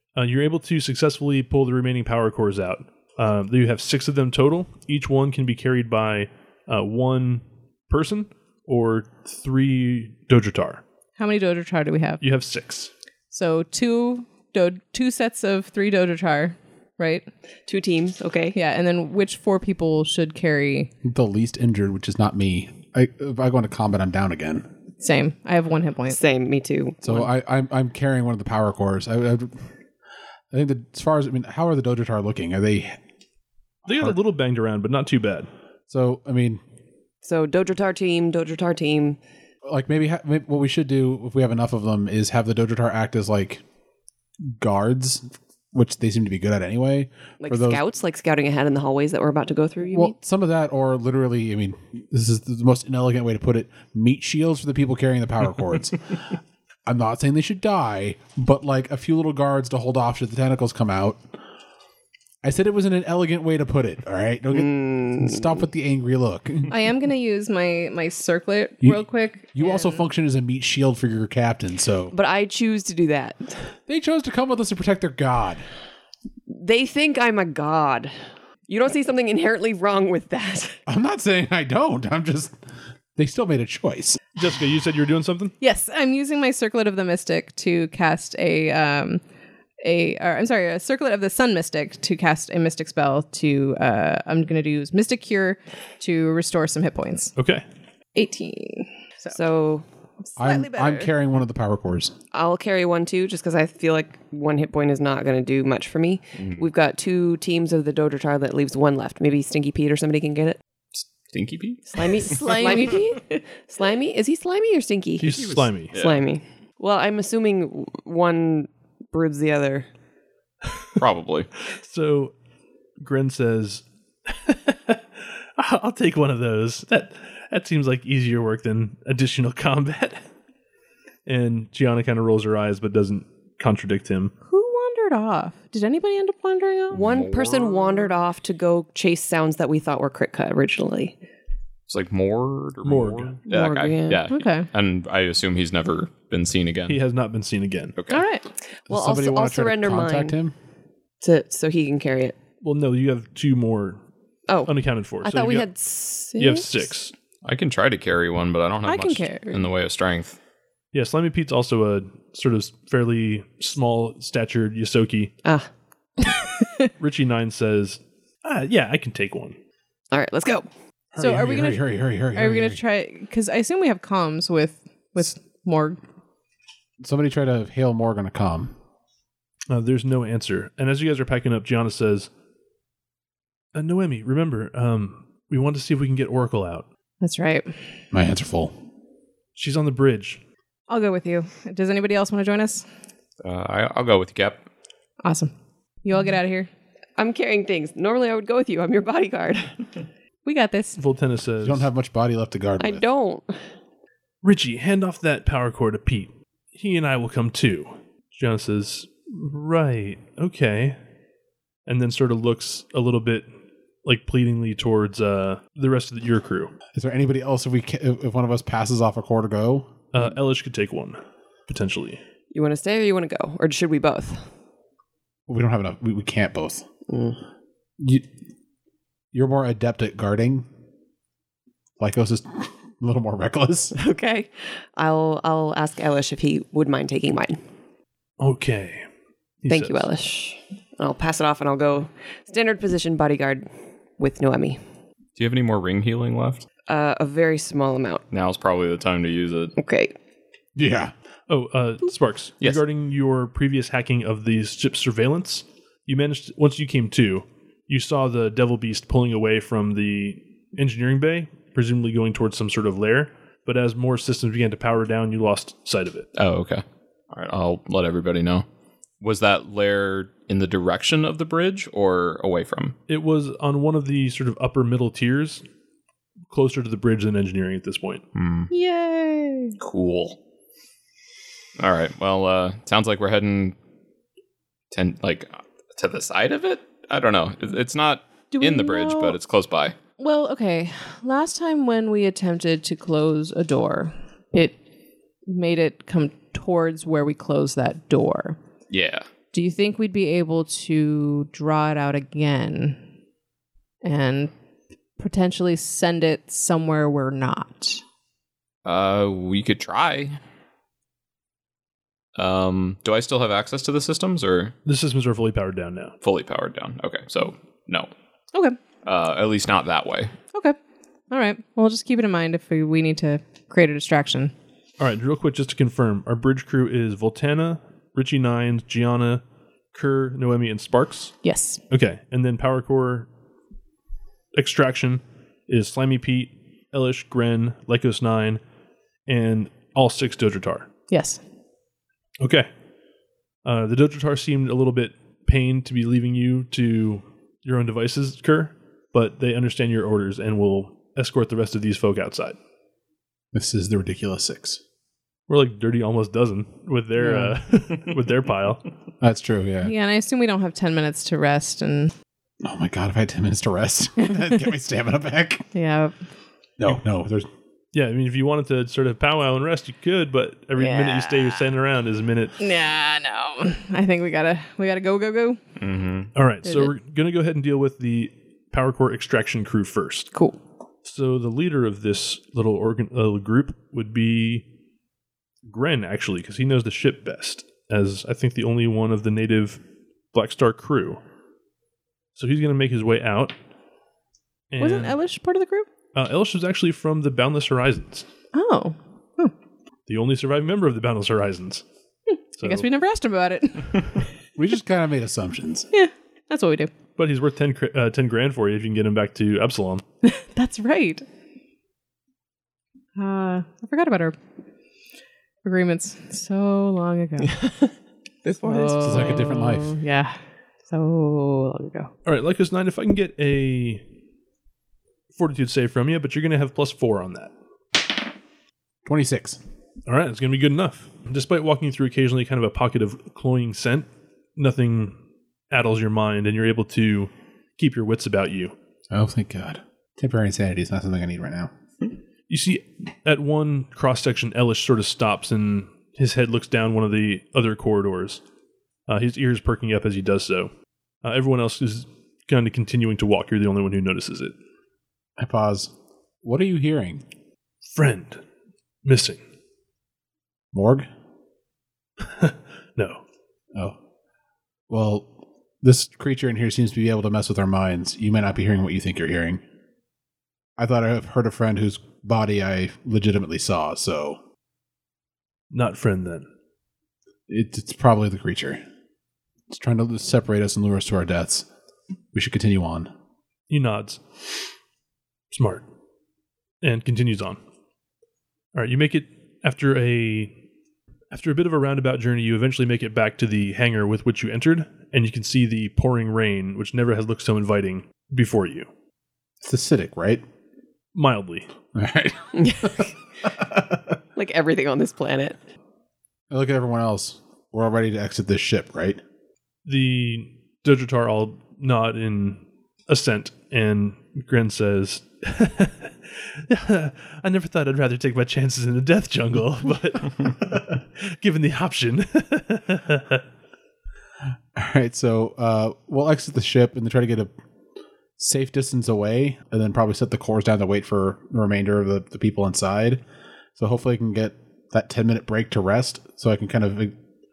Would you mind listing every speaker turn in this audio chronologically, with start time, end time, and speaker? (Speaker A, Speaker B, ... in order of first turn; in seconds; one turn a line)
Speaker A: 0.1-10.8
Speaker B: 11.2-12.2
Speaker A: 12.2-12.9
Speaker B: 13.3-17.2
Speaker C: 17.7-18.6
Speaker B: 18.5-20.9
Speaker D: 21.0-24.7
Speaker B: 25.0-26.2
Speaker C: 26.1-27.3
Speaker D: 27.0-29.6
Speaker D: 30.5-33.0
Speaker A: 33.9-35.5
Speaker D: 35.9-36.6
Speaker C: 37.2-39.2
Speaker D: 39.6-43.6
Speaker D: 44.6-47.8
Speaker C: 47.4-50.1
Speaker D: 49.9-56.2
Speaker D: 56.9-61.2
Speaker D: 62.4-66.7
Speaker C: 64.5-65.6
Speaker B: 66.7-70.0
Speaker D: 69.5-72.1
Speaker C: 72.1-73.7
Speaker D: 73.9-75.6
Speaker C: 76.5-78.1
Speaker C: 78.7-80.8
Speaker D: 80.9-82.5
Speaker D: 83.2-84.2
Speaker A: 84.3-85.5
Speaker B: 85.6-89.2
Speaker B: 89.8-97.3
Speaker A: 97.4-97.6
Speaker B: 98.1-99.4
Speaker C: 99.3-99.8
Speaker B: 100.2-101.1
Speaker D: 100.4-102.1
Speaker C: 102.3-110.6
Speaker E: 106.4-106.6
Speaker E: 111.3-112.0
Speaker C: 111.9-115.4
Speaker B: 112.1-113.4
Speaker A: 115.2-115.9
Speaker E: 115.2-116.2
Speaker C: 115.9-119.9
Speaker E: 121.0-121.5
Speaker A: 121.7-122.3
Speaker A: 123.0-130.2
Speaker A: 131.2-134.3
Speaker B: 134.5-137.1
Speaker E: 136.9-138.1
Speaker C: 136.9-141.1
Speaker E: 141.9-147.0
Speaker A: 142.8-143.4
Speaker C: 143.5-144.2
Speaker B: 144.3-144.7
Speaker A: 146.9-147.9
Speaker E: 147.9-148.2
Speaker B: 148.1-148.4
Speaker C: 148.9-150.3
Speaker D: 148.9-150.5
Speaker C: 151.2-152.3
Speaker A: 152.6-154.0
Speaker C: 154.5-156.7
Speaker A: 154.6-155.7
Speaker A: 156.3-157.1
Speaker E: 157.4-160.4
Speaker B: 158.8-159.7
Speaker A: 160.9-165.3
Speaker B: 166.6-166.9
Speaker A: 167.0-169.6
Speaker C: 170.1-170.7
Speaker D: 171.1-172.8
Speaker B: 171.2-176.0
Speaker D: 177.0-178.7
Speaker A: 179.7-182.3
Speaker A: 183.7-186.8
Speaker B: 187.2-187.7
Speaker D: 188.1-188.7
Speaker A: 189.6-190.4
Speaker B: 190.9-192.8
Speaker E: 193.4-194.6
Speaker B: 195.2-195.5
Speaker B: 196.0-196.7
Speaker C: 197.2-199.8
Speaker B: 200.4-201.0
Speaker A: 201.0-201.9
Speaker D: 201.6-203.0
Speaker C: 202.8-203.6
Speaker A: 204.4-211.0
Speaker A: 211.9-213.5
Speaker A: 214.0-216.7
Speaker D: 216.9-220.2
Speaker A: 220.1-222.2
Speaker C: 222.5-224.4
Speaker D: 225.5-226.8
Speaker C: 227.1-227.4
Speaker D: 228.0-228.2
Speaker D: 229.3-230.7
Speaker D: 232.0-233.9
Speaker C: 233.9-237.6
Speaker A: 238.4-239.1
Speaker A: 239.6-240.1
Speaker C: 239.7-244.8
Speaker E: 245.4-246.6
Speaker C: 246.9-248.2
Speaker E: 248.3-249.7
Speaker C: 249.8-250.1
Speaker D: 250.8-251.1
Speaker A: 251.5-266.3
Speaker E: 266.3-268.6
Speaker E: 269.2-272.9
Speaker A: 273.1-275.6
Speaker A: 276.5-278.2
Speaker E: 278.3-278.7
Speaker B: 278.7-279.8
Speaker E: 279.8-280.4
Speaker E: 281.8-283.8
Speaker E: 284.9-289.9
Speaker B: 288.5-289.4
Speaker B: 290.2-294.8
Speaker B: 295.4-298.6
Speaker E: 298.9-299.2
Speaker B: 299.5-303.0
Speaker B: 304.0-304.5
Speaker B: 305.2-308.0
Speaker E: 308.8-310.4
Speaker E: 312.4-314.7
Speaker A: 314.8-316.1
Speaker E: 316.2-318.1
Speaker E: 319.0-320.3
Speaker B: 321.3-324.5
Speaker A: 325.0-329.4
Speaker A: 329.9-331.4
Speaker B: 331.4-331.8
Speaker A: 331.9-333.3
Speaker A: 334.5-338.6
Speaker A: 339.3-340.9
Speaker B: 341.1-341.4
Speaker A: 342.4-342.7
Speaker A: 343.6-352.6
Speaker D: 353.5-354.8
Speaker A: 355.5-358.8
Speaker D: 359.2-359.9
Speaker B: 359.8-362.1
Speaker D: 362.6-365.6
Speaker B: 364.2-364.6
Speaker B: 365.7-366.1
Speaker D: 366.8-367.5
Speaker A: 367.9-372.6
Speaker B: 370.8-371.6
Speaker B: 372.6-375.6
Speaker E: 375.8-376.3
Speaker A: 376.3-380.3
Speaker B: 376.6-376.9
Speaker A: 381.0-384.6
Speaker A: 385.6-389.8
Speaker A: 390.3-391.2
Speaker A: 392.4-393.5
Speaker A: 394.7-395.2
Speaker B: 394.8-395.9
Speaker A: 396.1-398.2
Speaker B: 398.5-399.5
Speaker A: 400.1-401.8
Speaker A: 402.6-402.9
Speaker B: 402.6-404.3
Speaker D: 404.6-405.9
Speaker B: 405.9-406.9
Speaker A: 407.2-410.0
Speaker B: 410.2-411.2
Speaker B: 413.1-414.4
Speaker B: 415.6-417.6
Speaker C: 417.4-417.9
Speaker C: 418.4-419.4
Speaker B: 418.6-422.1
Speaker D: 419.0-419.9
Speaker A: 422.2-424.0
Speaker A: 425.3-427.5
Speaker D: 429.0-429.6
Speaker A: 430.1-435.1
Speaker A: 435.7-438.7
Speaker D: 439.1-441.7
Speaker A: 442.5-448.4
Speaker A: 449.1-450.7
Speaker A: 451.2-454.5
Speaker D: 455.4-455.9
Speaker D: 456.4-457.2
Speaker A: 457.9-458.4
Speaker A: 459.0-459.4
Speaker D: 460.7-461.1
Speaker A: 462.2-463.2
Speaker D: 464.9-465.3
Speaker D: 465.8-469.6
Speaker D: 470.8-474.4
Speaker A: 475.7-476.4
Speaker D: 477.5-478.8
Speaker D: 479.7-481.7
Speaker D: 482.3-483.1
Speaker A: 483.7-484.2
Speaker A: 485.5-485.8
Speaker A: 486.8-487.6
Speaker A: 488.7-490.5
Speaker A: 491.3-498.9
Speaker D: 499.6-500.4
Speaker A: 501.1-501.7
Speaker D: 501.9-504.1
Speaker C: 502.6-503.1
Speaker C: 504.4-505.6
Speaker D: 506.5-509.2
Speaker A: 509.9-523.4
Speaker D: 524.7-527.5
Speaker D: 528.4-533.2
Speaker D: 533.8-537.1